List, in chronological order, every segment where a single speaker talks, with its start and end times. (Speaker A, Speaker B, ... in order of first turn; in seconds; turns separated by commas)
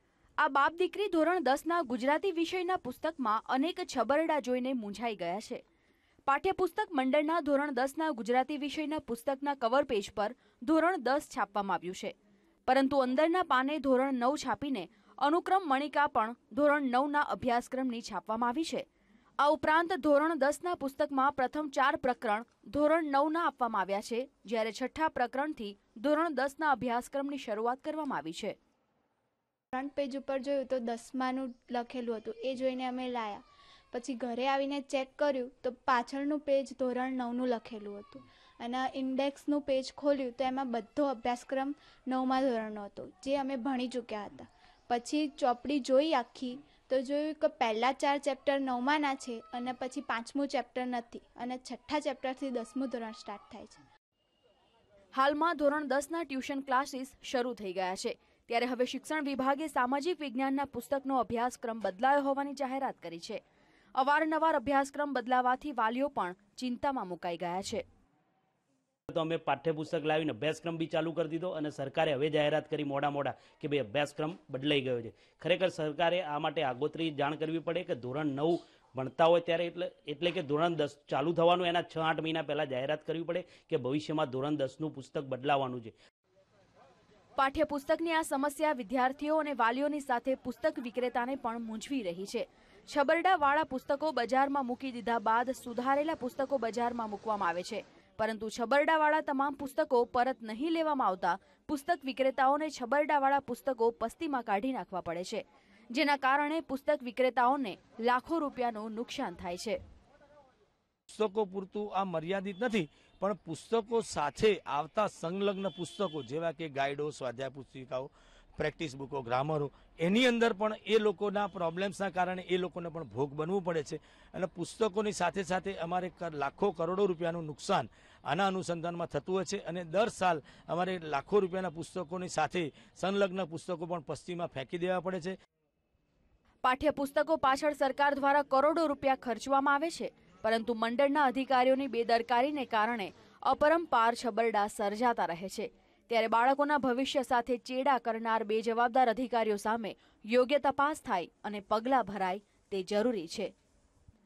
Speaker A: 0.4-5.6, Speaker A: 6.3-12.1, Speaker A: 12.7-18.9, Speaker A: 19.4-28.5, Speaker B: 29.8-53.8, Speaker A: 55.1-63.4, Speaker A: 64.0-67.8, Speaker C: 69.1-85.9, Speaker A: 87.4-109.8, Speaker D: 111.1-135.3, Speaker A: 136.6-153.5